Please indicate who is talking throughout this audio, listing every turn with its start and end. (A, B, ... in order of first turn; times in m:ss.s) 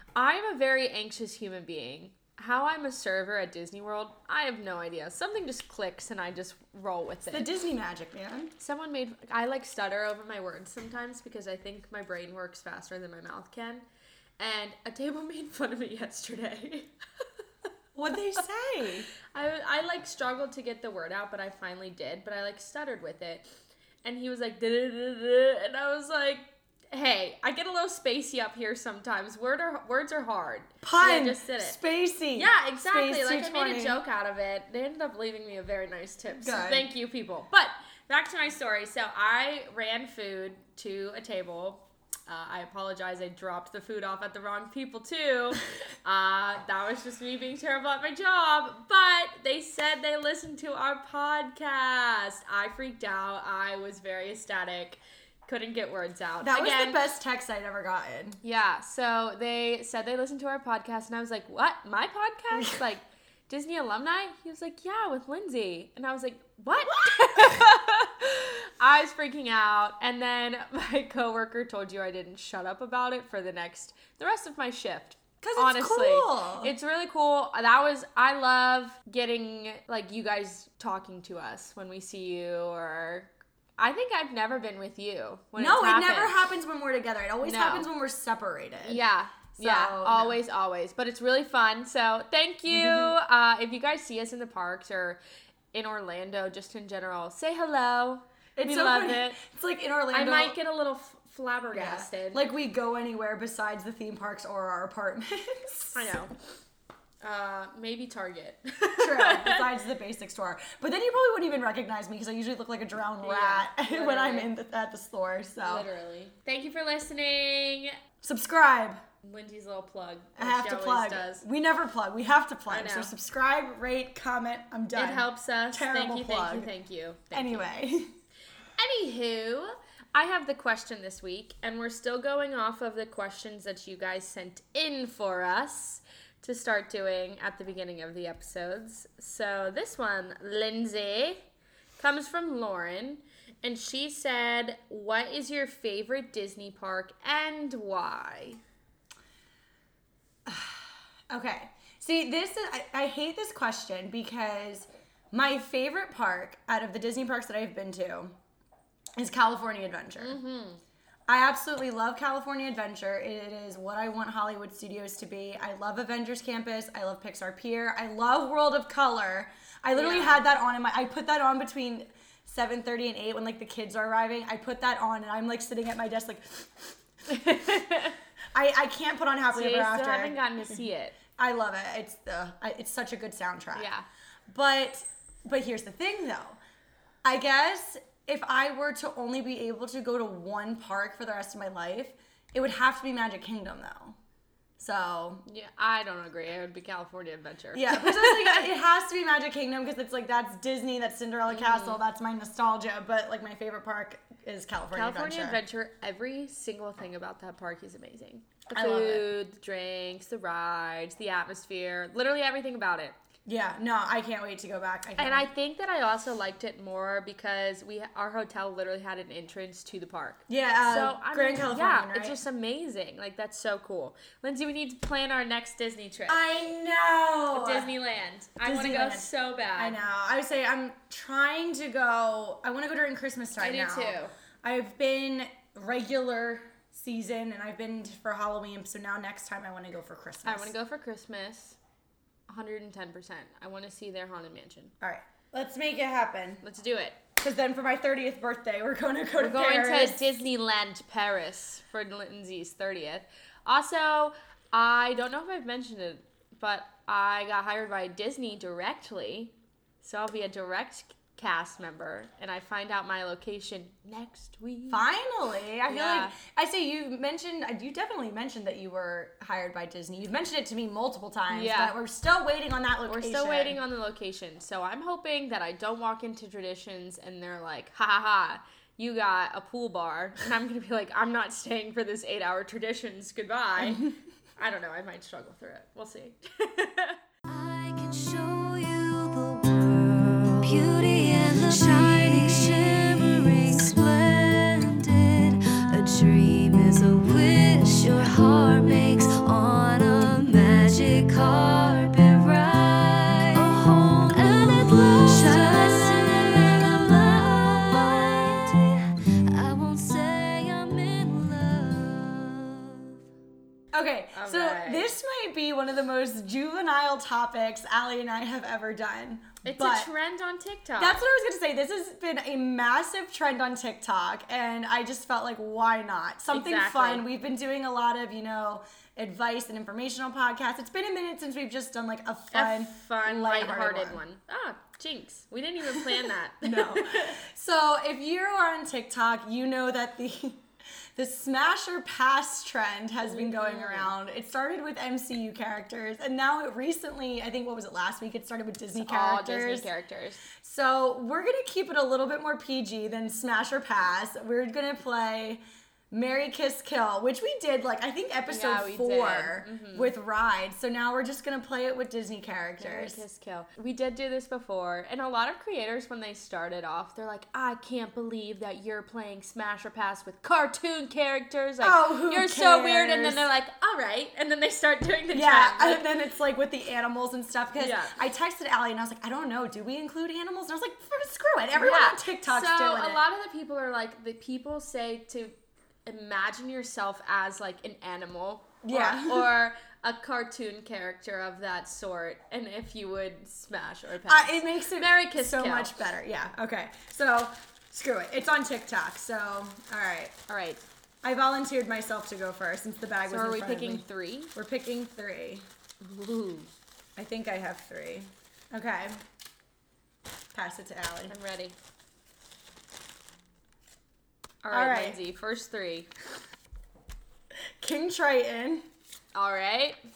0:00.2-0:07.4 A
0:07.3-0:08.5 B
0:08.6-0:13.8 A
0:14.4-0:16.9 A
0:17.9-0:19.1 B
0:19.3-0:23.4 A
0:24.0-0:31.8 A
0:30.8-0:34.0 B
0:32.3-0:57.0 A
0:36.4-0:36.9 B
0:56.4-0:58.4 B
0:58.4-1:26.3 A
1:02.5-1:02.8 B
1:15.4-1:16.7 B
1:25.6-1:29.0 B
1:27.4-1:27.9 A
1:28.8-1:35.2 A
1:29.6-1:30.4 B
1:32.7-1:33.1 B
1:35.7-1:39.4 A
1:38.6-1:40.6 B
1:40.1-1:42.4 A
1:41.7-1:46.1 B
1:45.9-1:46.3 A
1:47.2-1:49.7 A
1:49.0-1:55.9 B
1:53.2-1:54.5 A
1:55.6-1:57.9 A
1:58.2-1:59.0 B
1:59.2-2:01.4 A
2:00.4-2:06.7 B
2:02.7-2:03.1 A
2:04.9-2:07.7 A
2:07.3-2:08.1 B
2:08.8-2:21.4 A
2:22.0-2:28.6 A
2:30.4-2:38.3 B
2:39.2-2:40.4 B
2:40.2-2:40.8 A
2:41.3-2:57.0 B
2:49.9-2:50.4 A
2:57.3-2:58.2 A
2:58.5-3:00.5 B
2:59.5-3:01.2 A
3:01.4-3:03.9 B
3:03.7-3:04.0 A
3:04.5-3:06.6 B
3:07.2-3:14.2 B
3:14.8-3:15.4 B
3:15.4-3:18.6 A
3:17.7-3:25.6 B
3:21.5-3:22.0 A
3:24.9-3:33.1 A
3:28.7-3:29.3 B
3:33.4-3:35.5 B
3:35.2-3:46.4 A
3:40.5-3:42.4 B
3:46.3-3:47.9 B
3:47.5-3:50.0 A
3:48.6-4:00.7 B
3:53.6-3:54.3 A
4:00.4-4:01.8 A
4:02.5-4:04.9 A
4:05.0-4:06.6 B
4:06.6-4:07.2 A
4:07.4-4:10.2 B
4:09.4-4:25.0 A
4:24.9-4:33.8 B
4:25.9-4:26.3 A
4:31.5-4:31.9 A
4:33.0-4:47.2 A
4:43.8-4:44.1 B
4:47.5-5:13.2 C
5:13.9-5:20.1 B
5:14.3-5:15.1 A
5:19.6-5:21.2 A
5:21.0-5:34.2 B
5:26.5-5:27.3 A
5:32.5-5:37.4 A
5:36.0-5:40.6 B
5:41.1-5:49.9 B
5:43.2-5:44.1 A
5:49.0-5:50.4 A
5:50.6-6:03.2 B
5:58.5-6:00.1 A
6:02.8-6:16.1 A
6:11.8-6:13.4 B
6:15.3-6:23.2 B
6:17.8-6:18.1 A
6:21.7-6:25.5 A
6:26.0-6:36.0 A
6:28.8-6:29.5 B
6:34.2-6:40.4 B
6:40.5-6:40.8 A
6:41.2-6:45.6 B
6:43.3-6:44.5 A
6:46.0-6:46.7 A
6:47.2-6:49.2 B
6:50.5-6:51.3 B
6:51.3-6:51.8 A
6:54.6-6:56.1 A
6:54.7-6:55.2 B
6:57.8-6:58.8 B
6:59.3-7:00.0 A